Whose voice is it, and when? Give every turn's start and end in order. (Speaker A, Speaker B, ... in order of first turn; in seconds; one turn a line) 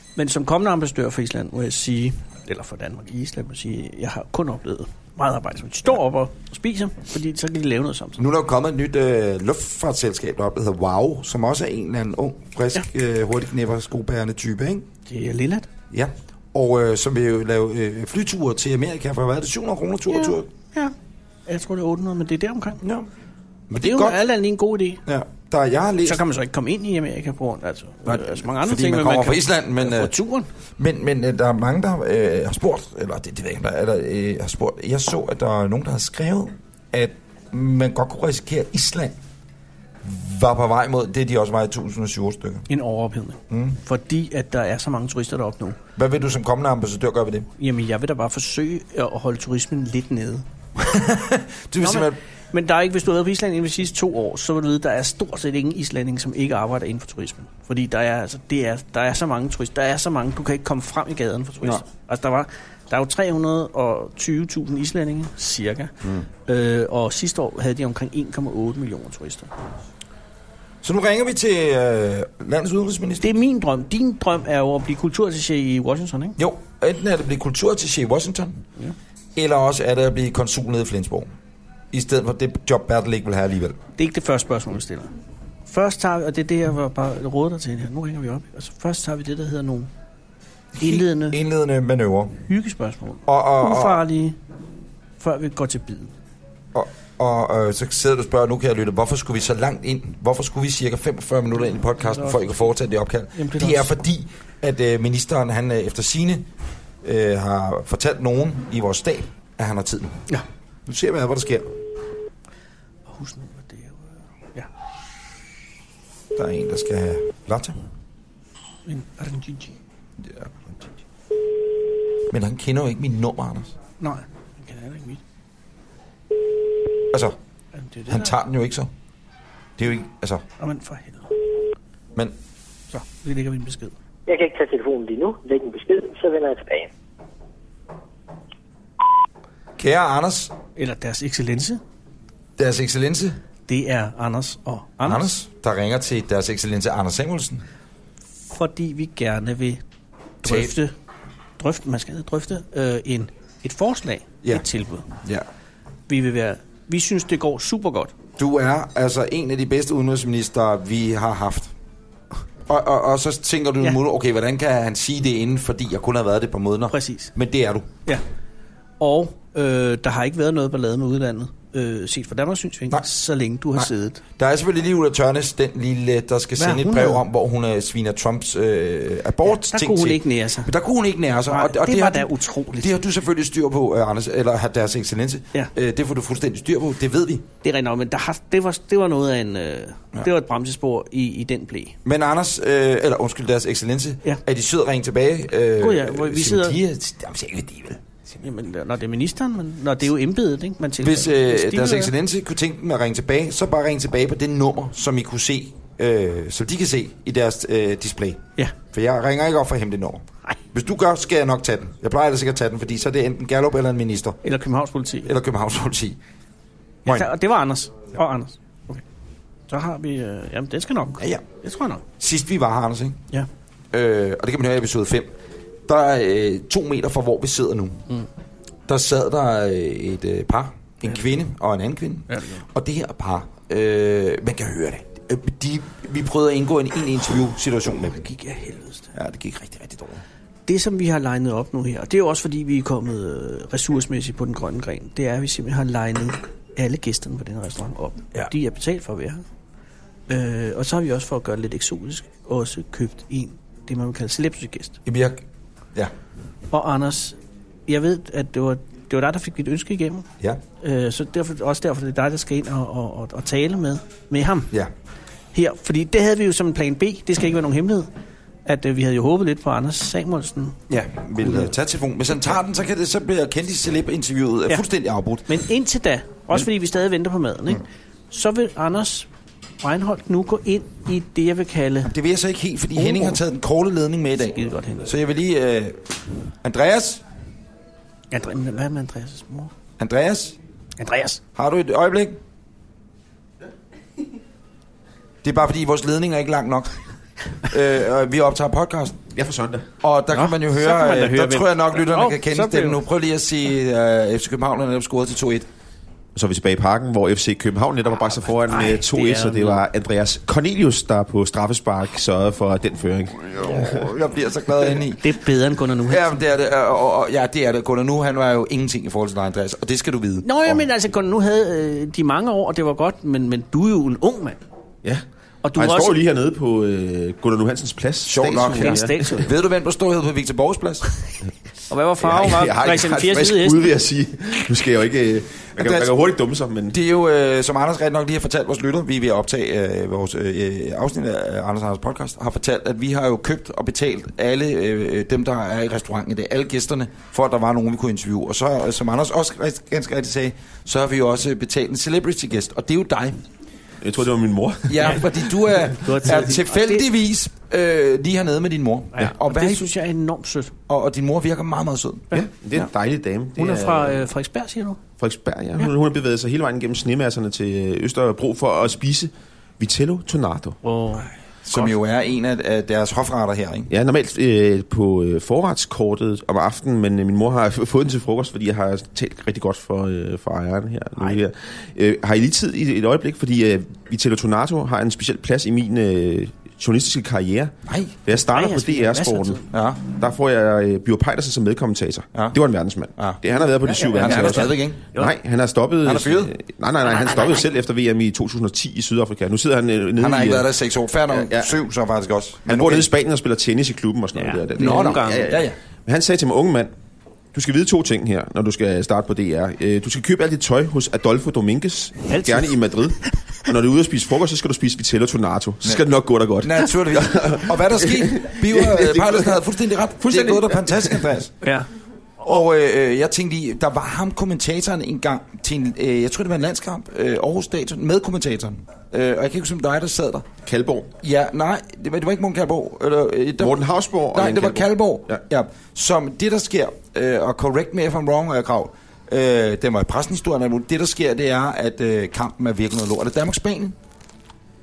Speaker A: 0.1-8.2
Speaker B: 8.2-14.9
Speaker A: 15.1-15.7
Speaker B: 15.9-20.5
Speaker A: 20.1-20.9
Speaker A: 21.5-22.8
Speaker B: 22.8-23.1
Speaker B: 23.7-24.2
Speaker A: 23.7-25.0
Speaker B: 25.1-26.2
Speaker A: 26.0-30.5
Speaker B: 28.1-30.1
Speaker B: 30.8-39.1
Speaker B: 40.0-42.7
Speaker A: 42.7-45.8
Speaker B: 43.5-43.8
Speaker B: 46.0-47.5
Speaker A: 47.6-50.4
Speaker B: 50.8-52.2
Speaker A: 51.8-65.9
Speaker A: 66.5-69.5
Speaker B: 70.8-73.2
Speaker A: 73.2-76.4
Speaker B: 76.4-78.6
Speaker B: 79.3-81.3
Speaker B: 81.9-83.8
Speaker A: 84.0-85.1
Speaker A: 85.7-89.9
Speaker B: 90.8-92.4
Speaker A: 90.8-91.4
Speaker A: 92.5-94.4
Speaker B: 93.2-94.0
Speaker A: 95.2-96.1
Speaker B: 96.7-106.5
Speaker A: 101.9-102.7
Speaker A: 103.3-103.9
Speaker B: 107.0-110.3
Speaker B: 110.8-111.7
Speaker A: 113.1-114.7
Speaker B: 116.3-117.8
Speaker A: 118.8-119.7
Speaker B: 120.2-120.7
Speaker B: 122.3-123.7
Speaker A: 124.0-125.2
Speaker B: 127.1-127.3
Speaker A: 127.7-128.3
Speaker B: 128.1-128.9
Speaker B: 129.8-130.4
Speaker A: 130.6-131.3
Speaker A: 132.9-133.9
Speaker C: 134.3-136.9
Speaker B: 139.8-140.5
Speaker A: 140.8-141.8
Speaker B: 142.6-143.4
Speaker A: 143.7-145.3
Speaker B: 145.0-147.6
Speaker A: 148.5-149.8
Speaker A: 150.4-150.9
Speaker B: 150.4-150.8
Speaker A: 151.6-155.1
Speaker A: 156.1-158.1
Speaker B: 158.4-161.7
Speaker B: 162.7-167.9
Speaker A: 166.9-167.3
Speaker A: 169.0-174.2
Speaker B: 173.7-187.4
Speaker A: 176.6-177.2
Speaker A: 179.5-180.7
Speaker A: 181.5-182.9
Speaker A: 187.6-191.9
Speaker B: 192.0-198.0
Speaker A: 195.8-196.8
Speaker A: 198.4-202.1
Speaker B: 201.0-214.4
Speaker A: 214.4-215.3
Speaker B: 215.2-216.2
Speaker A: 217.1-219.0
Speaker A: 219.7-222.0
Speaker B: 221.2-221.4
Speaker B: 222.2-223.2
Speaker B: 223.9-228.1
Speaker B: 228.9-238.2
Speaker A: 232.3-232.6
Speaker A: 238.1-239.1
Speaker B: 239.1-240.2
Speaker A: 240.7-249.4
Speaker A: 250.3-255.0
Speaker B: 255.0-255.4
Speaker A: 256.7-260.3
Speaker A: 260.8-264.7
Speaker A: 265.5-268.1
Speaker A: 268.6-270.8
Speaker B: 270.9-275.6
Speaker A: 271.4-271.7
Speaker A: 275.5-279.3
Speaker A: 279.8-282.1
Speaker B: 282.0-287.2
Speaker A: 282.9-283.4
Speaker A: 284.5-285.1
Speaker A: 288.3-289.7
Speaker B: 290.0-290.6
Speaker A: 291.0-291.4
Speaker B: 291.5-292.4
Speaker B: 295.4-296.9
Speaker B: 297.6-299.2
Speaker D: 299.3-299.9
Speaker B: 300.0-305.7
Speaker A: 300.3-303.0
Speaker D: 306.3-314.0
Speaker A: 308.7-309.8
Speaker B: 313.6-315.3
Speaker A: 315.2-316.3
Speaker B: 316.1-320.9
Speaker A: 320.4-324.6
Speaker A: 325.6-326.1
Speaker D: 325.7-329.4
Speaker B: 328.2-331.0
Speaker A: 328.6-329.5
Speaker A: 331.9-333.9
Speaker D: 332.2-337.0
Speaker B: 335.8-336.1
Speaker B: 336.9-353.4
Speaker D: 354.0-355.3
Speaker B: 354.9-359.9
Speaker A: 355.8-357.1
Speaker A: 359.1-360.7
Speaker B: 360.9-362.3
Speaker A: 362.3-362.9
Speaker D: 362.3-364.3
Speaker A: 363.6-365.0
Speaker D: 365.2-370.8
Speaker A: 370.8-371.3
Speaker B: 371.6-373.9
Speaker D: 373.9-387.7
Speaker B: 387.9-388.2
Speaker D: 388.2-400.7
Speaker A: 388.5-389.7
Speaker B: 389.7-390.0
Speaker A: 393.8-395.3
Speaker B: 394.1-395.1
Speaker B: 396.0-396.5
Speaker A: 397.1-397.6
Speaker B: 400.2-403.1
Speaker D: 401.3-401.7
Speaker D: 402.6-406.9
Speaker A: 404.4-405.5
Speaker B: 404.8-405.8
Speaker D: 407.5-419.6
Speaker A: 412.3-412.8
Speaker B: 416.6-421.5
Speaker D: 420.2-421.3
Speaker A: 421.6-421.9
Speaker B: 422.4-430.4
Speaker D: 430.6-431.1
Speaker B: 431.2-443.9
Speaker D: 433.6-435.4